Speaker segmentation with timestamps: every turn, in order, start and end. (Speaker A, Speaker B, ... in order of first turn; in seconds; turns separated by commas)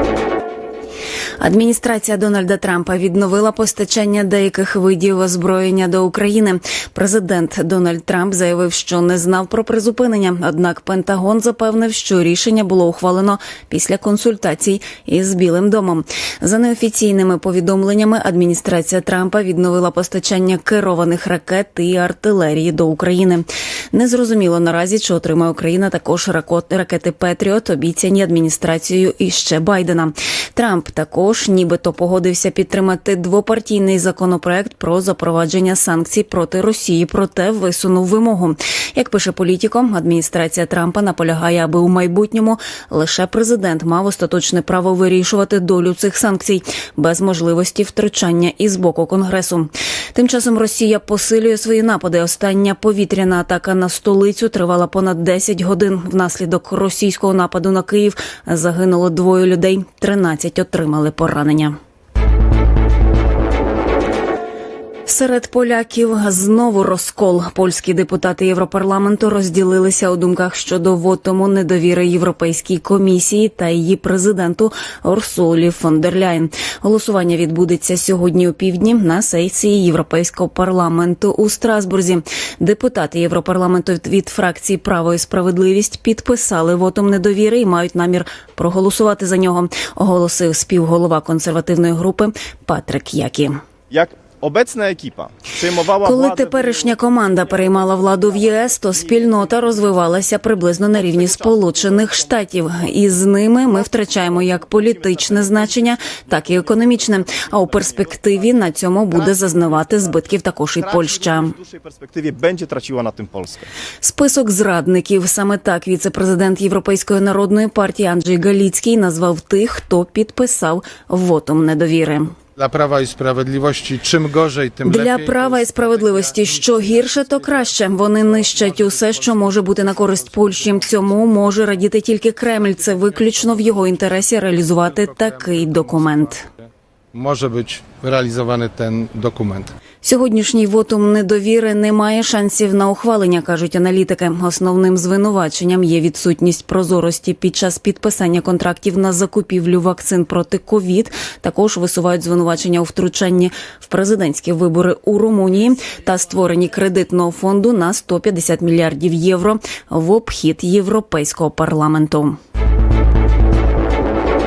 Speaker A: 1.4-61.8, Speaker A: 65.1-93.6, Speaker B: 93.9-113.7, Speaker A: 96.0-111.6, Speaker A: 114.0-122.3, Speaker C: 122.6-131.5, Speaker A: 124.8-136.5, Speaker C: 132.6-133.9, Speaker C: 134.6-139.7, Speaker A: 140.0-162.4